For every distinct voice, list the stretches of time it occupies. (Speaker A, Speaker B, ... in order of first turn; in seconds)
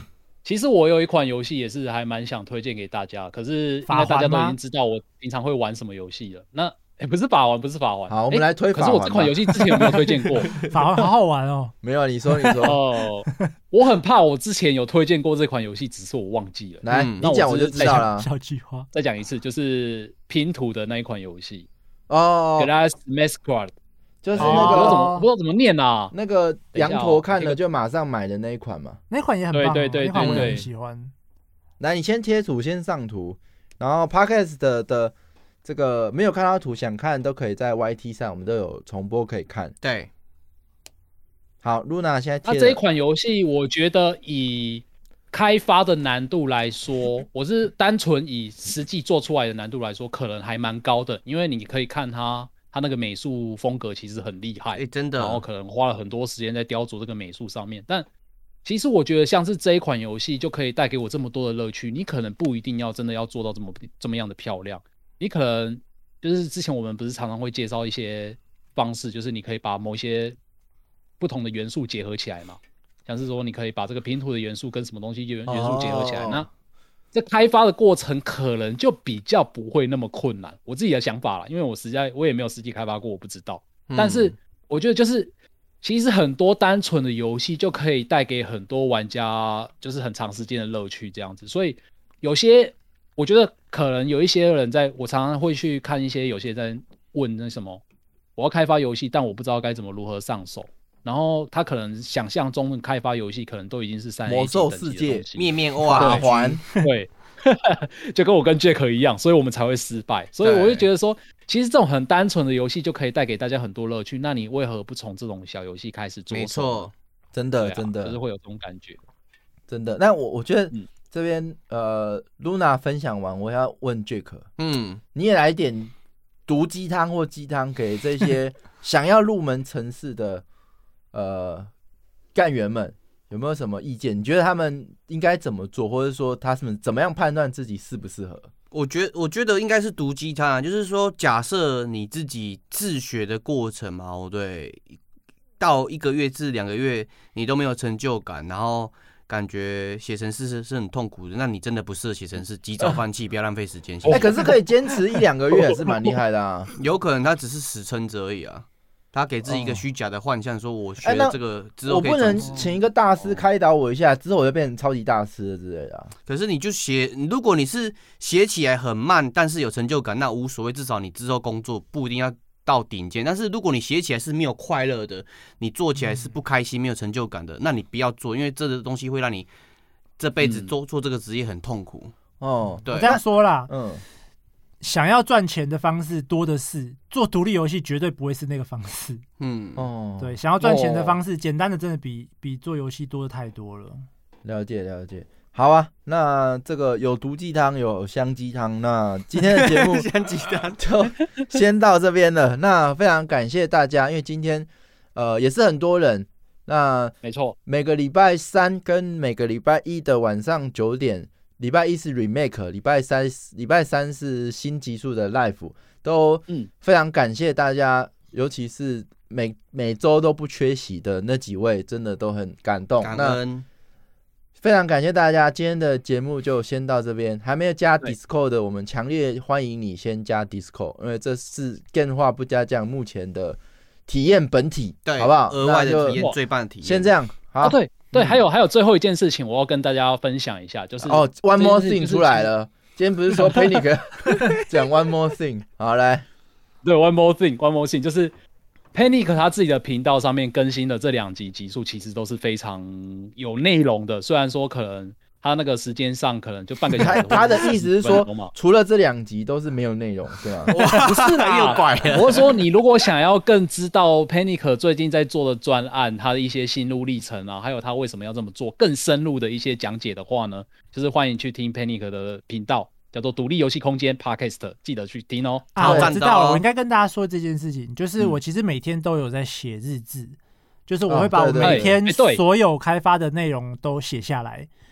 Speaker A: 0.4-10.6, 12.6-18.1, 18.9-21.7, 22.6-23.7, 24.3-26.1, 26.7-27.6, 29.5-30.6, 42.5-58.1, 58.6-70.4, 71.2-76.5, 77.1-97.8, 98.3-116.9, 117.6-119.0, 154.0-154.9, 155.6-156.0, 180.4-180.7, 207.2-207.6, 236.1-236.3, 237.6-242.5, 246.8-248.3, 248.9-258.5, 260.7-276.1, 281.6-282.4
Speaker B: 3.9-4.5, 10.5-11.7, 12.3-12.7, 17.8-18.9, 24.4-25.3, 29.1-31.1, 182.9-183.7, 184.8-189.2, 190.2-194.1, 275.8-284.7
Speaker C: 8.1-9.9, 11.8-12.8, 16.8-18.3, 22.1-22.7, 24.2-25.1, 26.1-29.0, 30.2-30.5, 31.8-35.1, 35.6-39.7, 41.6-42.8, 75.5-76.5, 104.2-105.2, 105.8-106.6, 117.3-118.2, 119.7-124.4, 125.1-125.9, 126.5-130.4, 131.1-131.7, 132.3-138.5, 154.1-156.7, 159.4-159.8, 161.0-166.1, 182.4-184.0, 189.8-191.2, 194.4-200.1, 200.8-223.4, 224.6-236.2, 236.8-238.4, 241.0-246.2, 256.9-260.7, 275.8-276.1, 281.1-281.9
Speaker D: 16.9-17.3, 39.8-40.1, 54.7-55.4, 83.9-84.3, 105.3-106.6, 110.4-110.9, 116.3-116.9, 124.6-125.0, 138.7-145.0, 145.6-154.5, 156.8-162.7, 166.2-179.5, 180.2-182.1, 182.8-183.1, 189.4-189.8, 199.4-200.8, 223.0-223.6, 235.1-237.1, 260.7-262.6, 275.8-276.6